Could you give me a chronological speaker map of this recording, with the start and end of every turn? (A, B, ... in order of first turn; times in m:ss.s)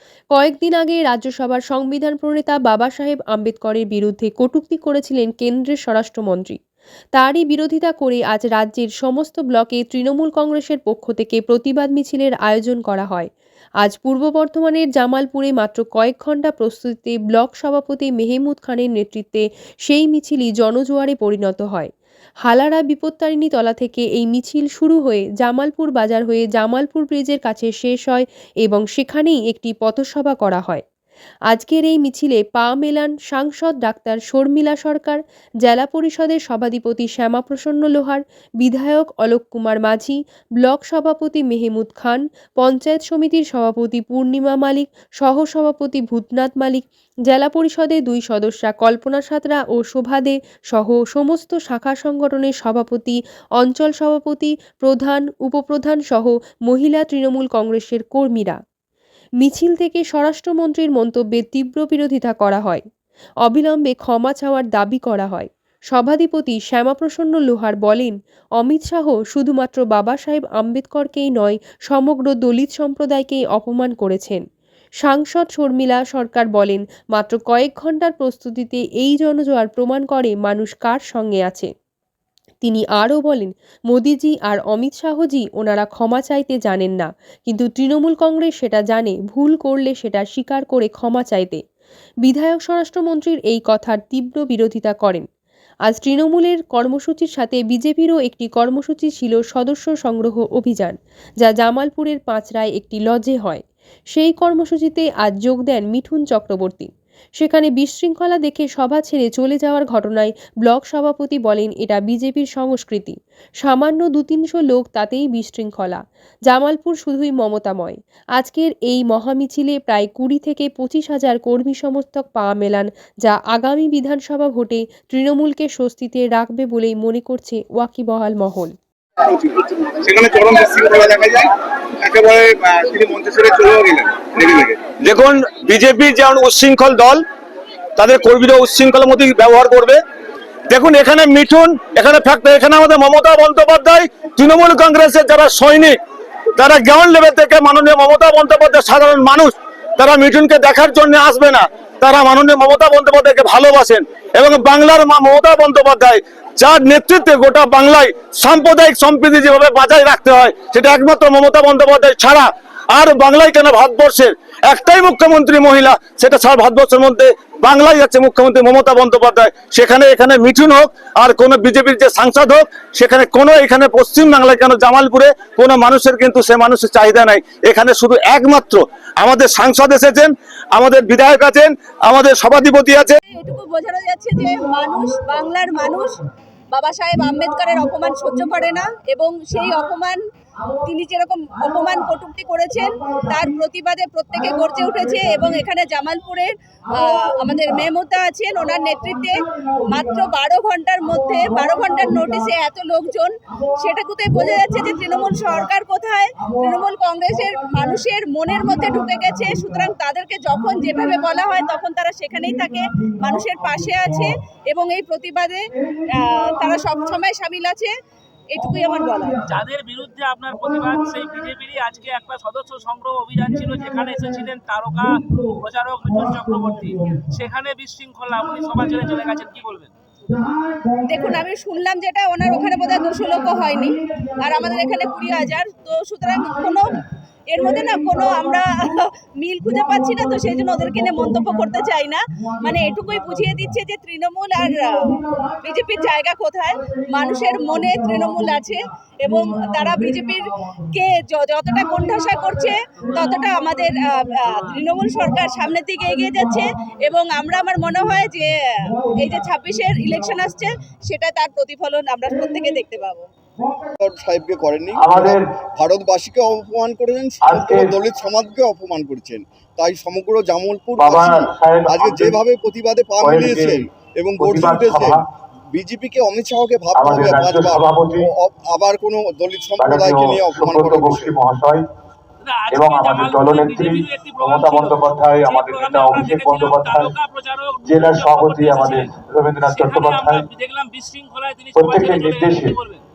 0:00.3-0:06.6 A
0:07.1-0:13.3 A
0:13.8-0:21.9 A
0:22.4-0:30.8 A
0:31.5-0:58.6 A
0:59.4-1:02.8 A
1:03.4-1:14.4 A
1:15.0-1:21.7 A
1:22.6-1:31.6 A
1:32.2-1:35.2 A
1:35.9-1:43.6 A
1:44.1-2:08.7 A
2:09.2-2:14.9 B
2:15.0-2:17.2 C
2:18.0-2:20.0 C
2:20.7-2:26.0 C
2:26.6-3:03.2 C
3:03.3-3:06.1 D
3:06.7-3:10.2 D
3:10.8-3:37.9 D
3:38.5-3:39.4 D
3:39.4-3:49.9 E
3:51.0-4:23.3 D
4:24.0-4:41.3 F
4:25.0-4:25.4 G
4:27.4-4:27.9 G
4:31.0-4:32.4 G
4:33.2-4:33.8 G
4:34.4-4:35.2 G
4:36.9-4:38.3 G
4:39.8-4:41.8 G
4:42.4-4:49.1 E
4:42.7-4:47.1 G
4:47.8-4:50.5 G
4:49.6-4:53.0 E
4:51.7-4:52.8 G